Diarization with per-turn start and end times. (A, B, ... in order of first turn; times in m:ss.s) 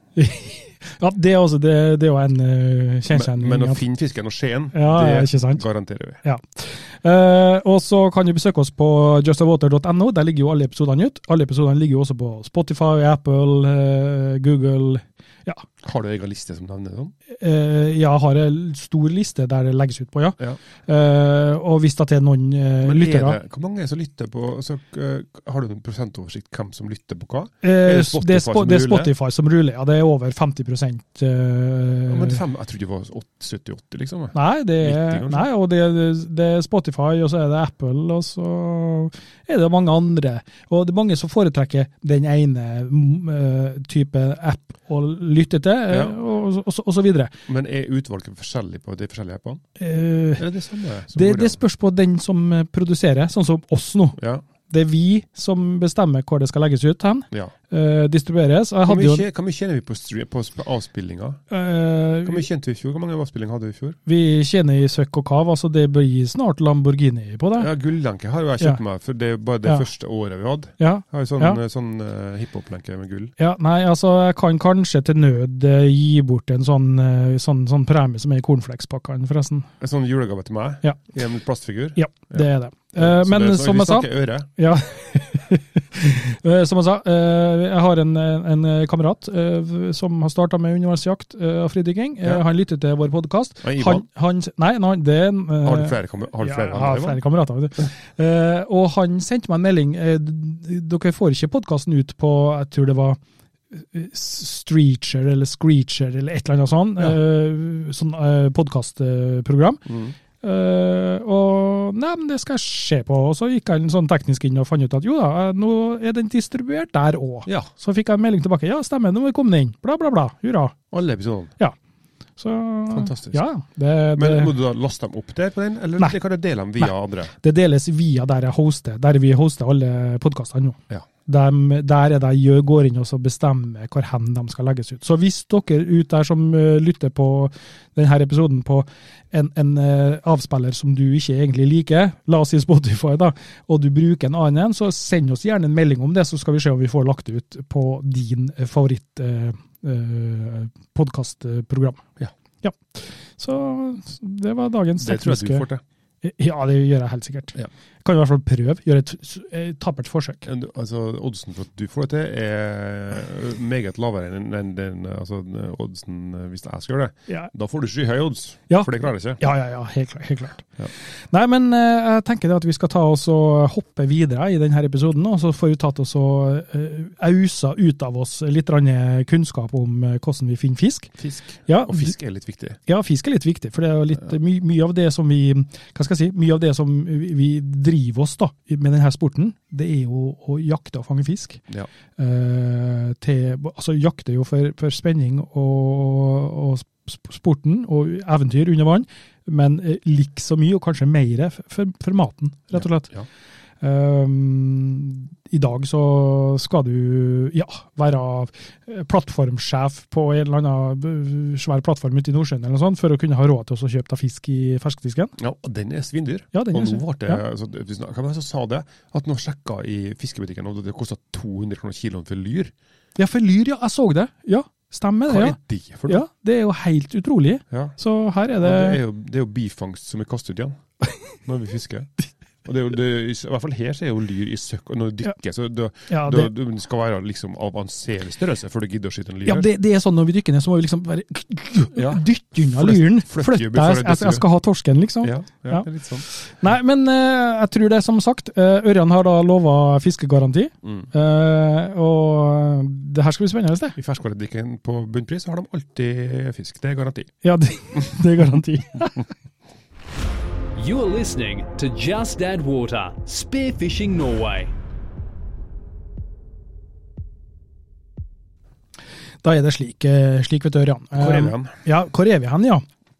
0:00.2-0:03.8 A
0:03.1-0:06.2 B
0:04.7-0:05.6 A
0:06.2-0:15.6 A
0:15.8-0:17.1 B
0:17.3-0:23.4 A
0:22.8-0:29.1 B
0:27.6-0:32.4 A
0:32.1-0:35.5 B
0:34.3-0:47.3 A
0:45.9-0:46.2 B
0:47.5-0:49.6 B
0:49.8-0:50.4 A
0:50.4-0:51.6 B
0:51.1-0:54.2 A
0:54.2-0:54.4 B
0:54.7-0:59.2 A
0:58.8-1:01.4 B
1:01.5-1:02.4 A
1:02.2-1:04.0 B
1:04.0-1:07.7 A
1:07.6-1:13.3 B
1:10.8-1:11.6 A
1:13.4-1:19.7 A
1:19.8-1:24.5 B
1:22.0-1:43.2 A
1:33.6-1:34.0 B
1:35.6-1:37.2 B
1:43.7-1:49.8 A
1:49.8-1:50.1 B
1:50.4-2:00.7 A
2:00.9-2:01.5 B
2:02.4-2:04.5 A
2:02.9-2:03.4 B
2:04.2-2:07.3 B
2:06.8-2:32.0 A
2:32.6-2:35.6 A
2:35.0-2:35.8 B
2:36.2-2:40.4 A
2:40.4-2:49.4 B
2:48.7-2:50.7 A
2:51.3-3:01.1 A
3:01.2-3:02.8 B
3:01.7-3:02.1 A
3:02.8-3:11.6 A
3:12.2-3:23.1 A
3:22.7-3:23.2 B
3:23.8-3:35.3 A
3:35.4-3:42.7 B
3:36.5-3:37.4 A
3:43.2-3:49.0 A
3:45.3-3:46.2 B
3:47.7-3:48.0 B
3:48.6-3:50.8 B
3:51.4-3:52.1 B
3:52.6-3:59.7 B
3:56.1-3:56.5 A
3:59.4-4:14.0 A
4:01.9-4:04.4 B
4:05.2-4:06.2 B
4:14.0-4:17.3 B
4:17.4-4:19.3 A
4:20.8-4:24.7 C
4:29.4-4:32.8 A
4:31.1-4:31.7 B